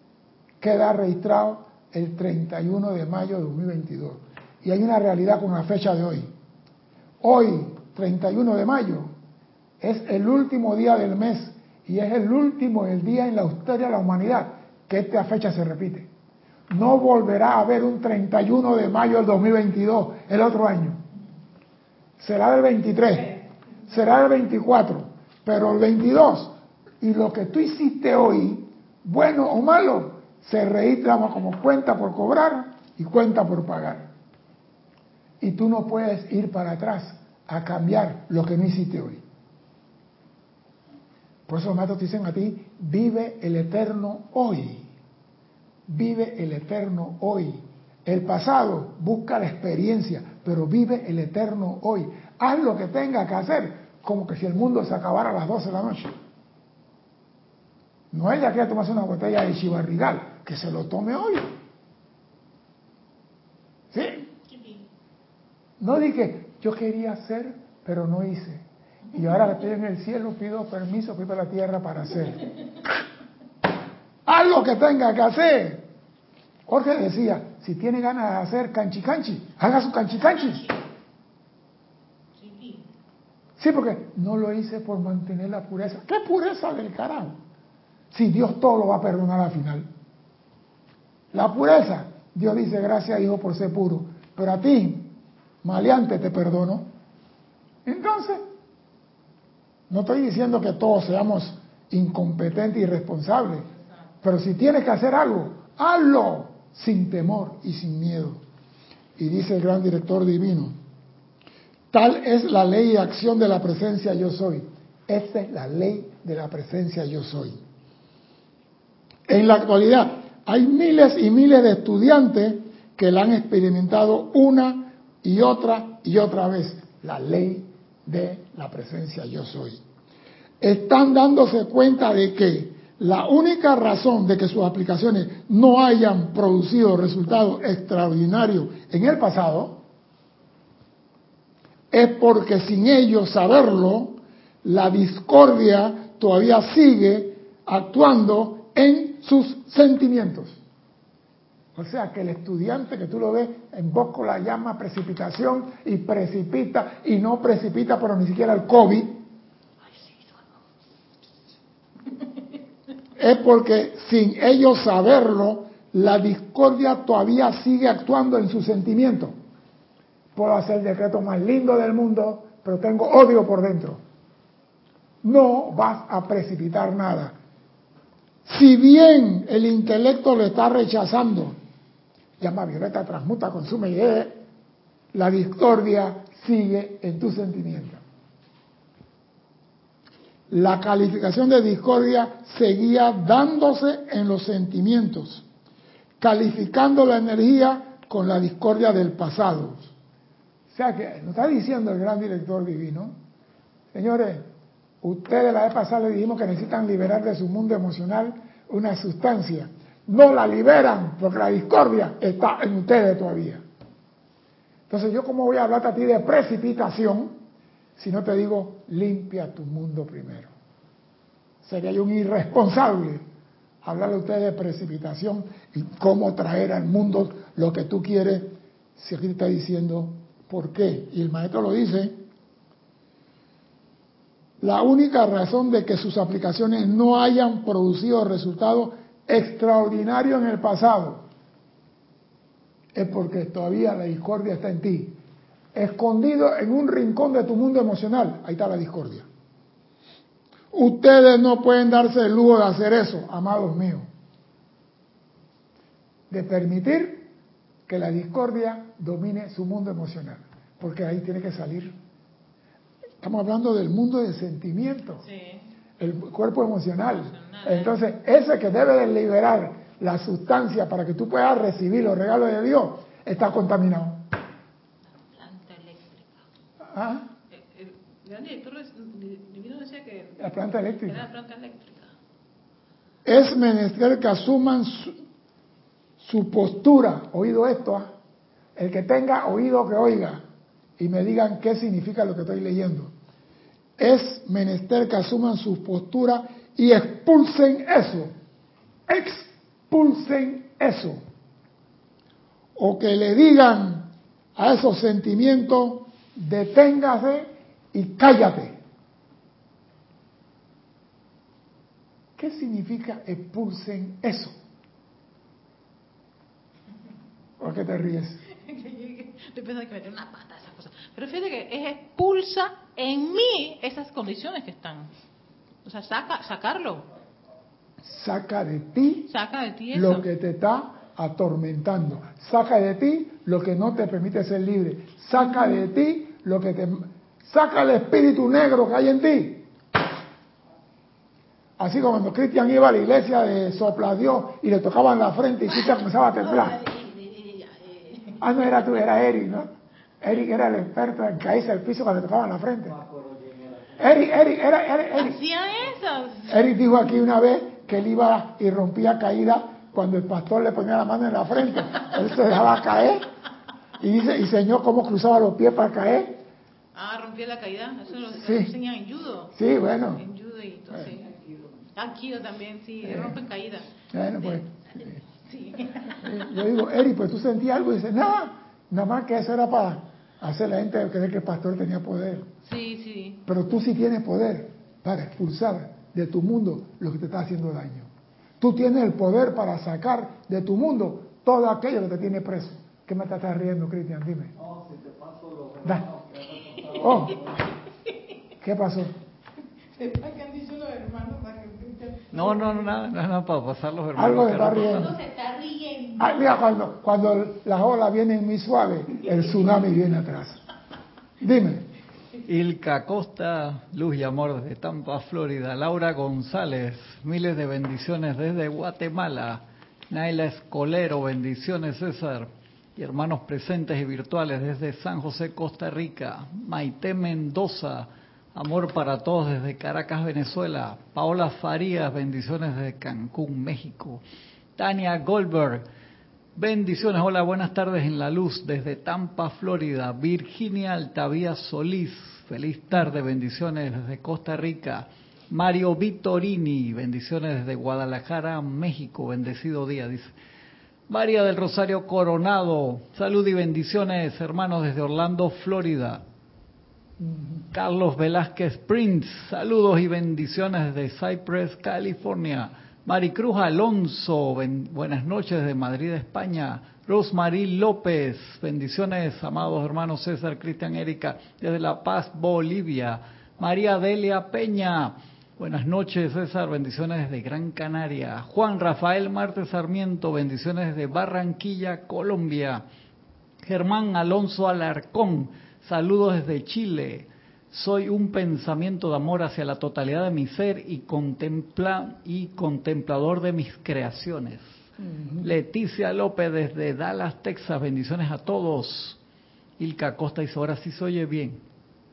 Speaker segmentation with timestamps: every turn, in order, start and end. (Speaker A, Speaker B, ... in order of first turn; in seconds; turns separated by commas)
Speaker A: 0.6-6.3, Speaker A: 7.2-9.1, Speaker A: 9.8-16.1, Speaker A: 16.7-21.0, Speaker A: 22.2-23.3, Speaker A: 23.9-34.1, Speaker A: 35.4-39.2, Speaker A: 41.5-44.9, Speaker A: 45.9-56.1, Speaker A: 58.1-61.5, Speaker A: 63.9-64.3, Speaker B: 64.5-64.8, Speaker A: 65.8-72.5, Speaker A: 74.2-75.8, Speaker A: 76.7-80.7, Speaker B: 82.4-82.9, Speaker A: 83.6-87.4, Speaker A: 88.1-89.9, Speaker A: 91.3-95.1, Speaker A: 95.6-96.9, Speaker A: 97.8-98.4, Speaker A: 99.9-103.7, Speaker A: 104.2-108.4, Speaker A: 109.2-110.7, Speaker A: 111.9-117.6, Speaker A: 119.3-129.8, Speaker A: 130.6-139.8, Speaker A: 141.9-150.6, Speaker A: 151.7-159.2, Speaker A: 163.2-169.3, Speaker A: 170.3-174.0, Speaker A: 175.2-177.3, Speaker A: 178.4-181.6, Speaker A: 182.4-184.4, Speaker A: 185.1-188.0, Speaker A: 190.5-195.4, Speaker A: 196.2-199.9, Speaker A: 200.7-203.1, Speaker A: 203.9-204.5, Speaker A: 205.0-213.6, Speaker A: 214.9-217.3, Speaker A: 217.9-220.5, Speaker A: 221.6-223.2, Speaker A: 223.8-232.2, Speaker A: 234.6-241.2, Speaker A: 242.9-245.2, Speaker A: 245.7-249.2, Speaker A: 250.7-254.1, Speaker A: 256.3-257.3, Speaker A: 257.9-261.9, Speaker A: 263.2-265.2, Speaker B: 265.2-265.6, Speaker A: 266.0-274.2, Speaker B: 267.1-268.0, Speaker B: 275.1-276.4, Speaker A: 276.9-277.3, Speaker B: 277.5-282.1, Speaker A: 280.4-281.3, Speaker A: 283.2-285.1, Speaker A: 286.2-288.1, Speaker A: 288.8-290.4, Speaker A: 291.0-293.1, Speaker A: 294.0-298.3, Speaker A: 299.1-301.2, Speaker A: 302.7-308.8, Speaker A: 312.4-314.5, Speaker A: 317.6-318.4, Speaker B: 318.6-325.1, Speaker B: 325.8-327.1, Speaker A: 328.0-329.3, Speaker B: 329.3-330.2, Speaker A: 329.9-339.7, Speaker A: 341.8-346.8, Speaker B: 346.5-348.4, Speaker A: 348.4-349.7, Speaker A: 350.2-352.9, Speaker C: 352.9-354.0, Speaker A: 354.0-355.4, Speaker B: 355.1-356.5, Speaker A: 356.5-363.3, Speaker A: 364.0-366.4, Speaker B: 366.9-369.5, Speaker A: 368.4-368.7, Speaker A: 369.5-370.2, Speaker B: 370.1-371.4, Speaker B: 371.9-374.6, Speaker A: 373.0-373.4, Speaker A: 374.1-375.2, Speaker B: 375.4-376.2, Speaker A: 376.2-382.5, Speaker B: 382.6-383.4, Speaker A: 383.4-388.1, Speaker A: 388.6-394.5, Speaker C: 394.6-397.7, Speaker A: 397.0-397.4, Speaker A: 398.6-399.1, Speaker B: 399.9-403.0, Speaker C: 402.3-405.0, Speaker A: 404.1-405.1, Speaker B: 404.6-406.4, Speaker A: 406.2-410.6, Speaker A: 411.4-411.9, Speaker C: 412.4-434.2, Speaker C: 434.8-435.8, Speaker C: 436.5-450.3, Speaker C: 451.1-456.2, Speaker A: 457.2-457.6, Speaker C: 457.7-482.8, Speaker C: 483.6-494.6, Speaker A: 495.0-495.5, Speaker C: 495.4-499.2, Speaker C: 499.8-501.6